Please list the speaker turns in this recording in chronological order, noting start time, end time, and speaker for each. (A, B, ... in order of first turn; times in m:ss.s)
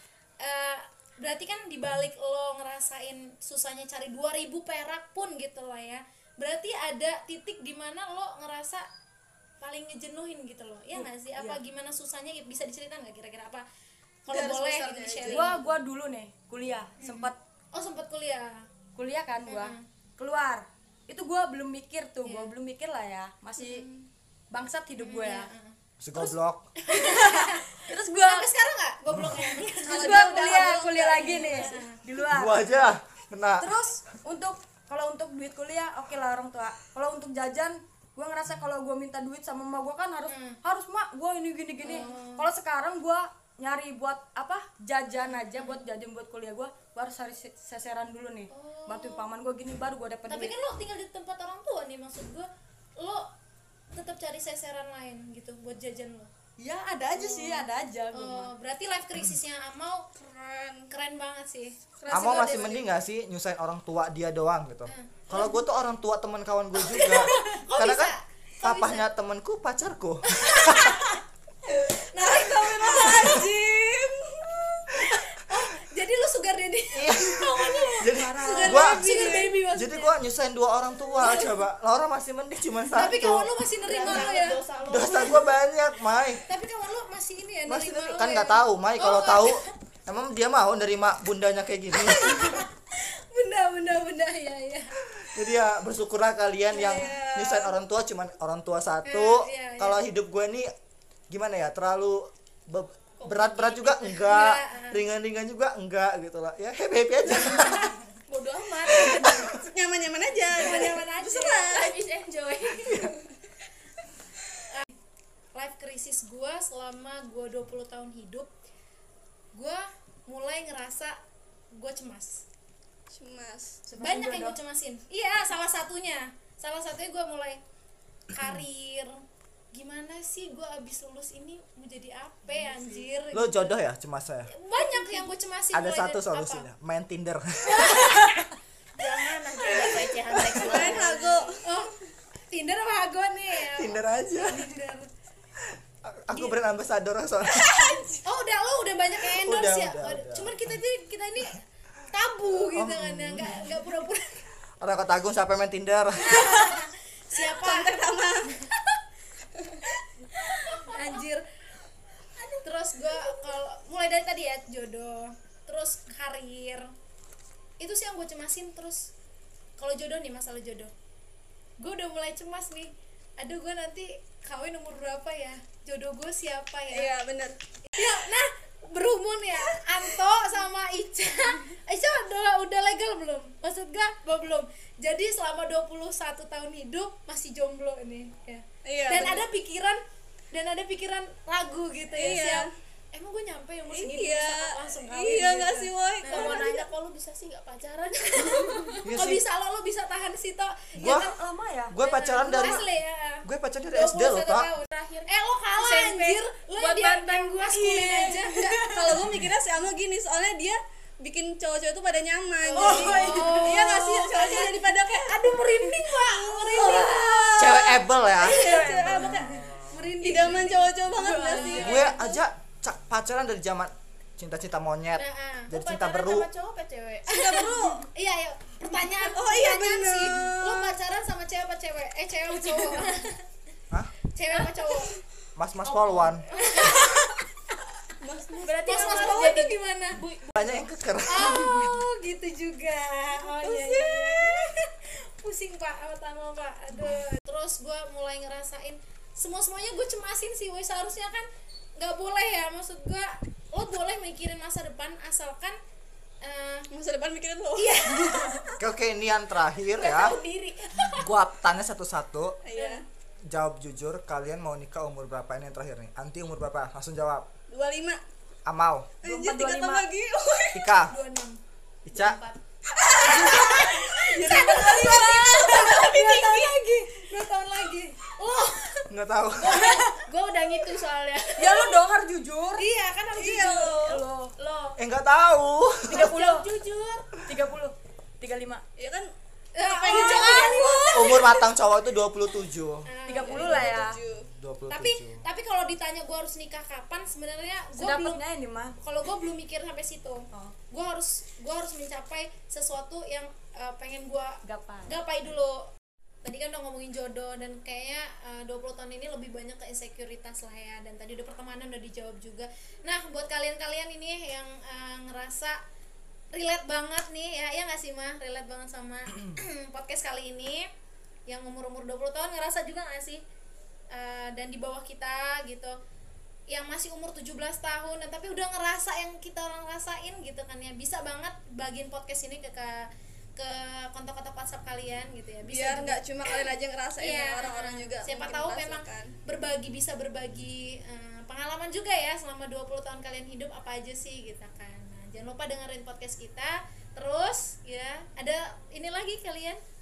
0:00.4-0:08.8 A
0:09.6-0:13.6 A
0:11.0-0:11.6 B
0:14.2-0:15.7 A
0:14.3-0:15.6 C
0:15.3-0:17.4 B
0:17.0-0:18.7 A
0:18.9-0:23.9 B
0:19.5-0:19.8 A
0:22.2-0:22.5 A
0:23.6-0:23.9 A
0:24.5-0:25.5 B
0:25.0-0:25.8 A
0:26.0-0:26.7 D
0:26.8-0:32.0 A
0:26.9-0:28.5 B
0:29.8-0:32.6 B
0:30.0-0:30.8 C
0:32.3-0:33.7 D
0:33.6-0:50.5 B
0:40.3-0:40.6 A
0:41.8-0:42.5 A
0:45.2-0:45.8 A
0:48.5-0:49.3 A
0:50.3-0:53.3 A
0:53.9-0:56.3 A
0:56.6-0:58.5 B
0:57.1-1:00.1 A
1:00.1-1:00.9 C
1:00.9-1:02.8 A
1:02.0-1:02.8 C
1:02.1-1:11.0 D
1:04.9-1:05.6 A
1:06.8-1:09.0 A
1:10.2-1:13.8 A
1:12.2-1:14.2 C
1:14.5-1:20.1 A
1:16.9-1:23.5 D
1:18.1-1:18.9 B
1:18.6-1:19.5 C
1:21.1-1:21.6 A
1:22.9-1:24.6 A
1:23.8-1:25.6 E
1:24.9-1:26.4 D
1:26.4-1:29.7 A
1:27.7-1:32.6 D
1:31.9-1:35.0 A
1:35.2-1:40.7 D
1:36.7-1:37.7 C
1:39.0-1:40.0 A
1:41.3-1:47.9 D
1:43.2-1:45.0 A
1:48.3-1:49.6 E
1:48.9-1:49.6 D
1:49.6-1:51.9 C
1:50.5-1:52.0 A
1:51.7-1:53.2 E
1:55.5-1:58.5 A
1:59.5-2:01.2 A
2:01.7-2:02.4 A
2:03.1-2:03.8 C
2:03.9-2:04.6 B
2:04.0-2:07.6 A
2:08.3-2:13.7 A
2:12.5-2:13.0 C
2:13.3-2:14.5 D
2:14.5-2:16.7 A
2:15.7-2:18.3 D
2:17.6-2:18.3 A
2:19.0-2:21.6 E
2:20.3-2:20.9 D
2:20.6-2:21.6 C
2:20.8-2:21.1 A
2:21.6-2:21.9 A
2:22.5-2:25.1 A
2:23.7-2:24.7 D
2:25.7-2:28.0 D
2:26.3-2:26.6 A
2:27.7-2:34.3 A
2:29.2-2:30.7 D
2:32.7-2:33.9 D
2:34.8-2:36.7 D
2:36.2-2:38.7 A
2:37.3-2:38.6 C
2:39.6-2:39.8 C
2:40.3-2:40.8 C
2:40.5-2:41.4 A
2:42.4-2:43.2 C
2:42.6-2:46.9 A
2:47.8-2:49.1 A
2:49.8-2:50.9 A
2:51.8-2:57.1 A
2:56.9-2:57.6 C
2:57.9-3:16.9 A
3:08.8-3:09.4 C
3:12.1-3:12.7 C
3:13.9-3:16.7 C
3:16.2-3:19.1 E
3:18.4-3:21.4 A
3:19.0-3:19.4 D
3:21.0-3:21.4 D
3:21.0-3:21.9 B
3:21.9-3:22.8 D
3:22.0-3:29.1 A
3:23.4-3:24.7 D
3:24.8-3:28.3 E
3:28.1-3:42.2 C
3:28.4-3:29.2 B
3:32.6-3:37.8 A
3:32.7-3:34.4 B
3:37.6-3:38.7 D
3:38.4-3:42.4 A
3:39.1-3:39.4 B
3:39.8-3:40.1 D
3:41.1-3:41.8 B
3:41.8-3:46.5 D
3:45.2-3:45.7 A
3:45.7-3:47.6 E
3:47.3-3:48.1 C
3:47.3-3:53.4 A
3:49.2-3:51.0 C
3:52.6-3:53.1 C
3:54.3-3:55.1 A
3:54.5-3:55.2 C
3:55.6-3:56.4 D
3:55.8-3:56.8 E
3:56.5-3:57.4 A
3:58.2-3:59.7 C
3:58.6-4:00.9 E
3:58.8-4:00.2 A
4:00.5-4:02.0 D
4:01.3-4:15.8 A
4:03.4-4:04.7 C
4:16.4-4:16.9 A
4:16.9-4:18.7 C
4:17.7-4:18.8 A
4:18.8-4:20.4 D
4:20.0-4:21.2 A
4:21.1-4:22.6 D
4:22.6-4:23.0 C
4:22.7-4:23.0 A
4:23.5-4:27.5 D
4:27.7-4:28.2 C
4:28.6-4:29.1 D
4:29.2-4:30.1 B
4:29.2-4:30.9 C
4:30.7-4:31.1 D
4:31.1-4:31.6 A
4:32.0-4:32.4 D
4:32.1-4:32.6 E
4:32.9-4:36.7 C
4:33.2-4:39.0 A
4:39.1-4:39.8 D
4:39.6-4:41.9 E
4:39.7-4:40.1 B
4:41.6-4:42.8 B
4:42.8-4:44.0 A
4:43.3-4:44.2 C
4:44.0-4:44.5 B
4:44.6-4:45.0 E
4:45.0-4:46.3 D
4:46.1-4:46.7 B
4:46.1-4:47.3 E
4:47.4-4:48.8 B
4:49.0-4:51.7 C
4:49.7-4:51.4 A
4:50.1-4:50.8 B
4:51.1-4:53.1 D
4:53.0-4:53.9 A
4:53.2-4:54.2 B
4:53.4-4:54.5 C
4:54.5-4:55.4 D
4:54.9-4:58.4 A
4:58.0-4:59.0 B
4:59.0-5:05.9 A
5:04.6-5:05.3 B
5:06.4-5:15.8 A
5:16.5-5:20.9 A
5:21.5-5:23.4 A
5:24.1-5:26.0 A
5:26.7-5:49.8 A
5:35.7-5:39.3 C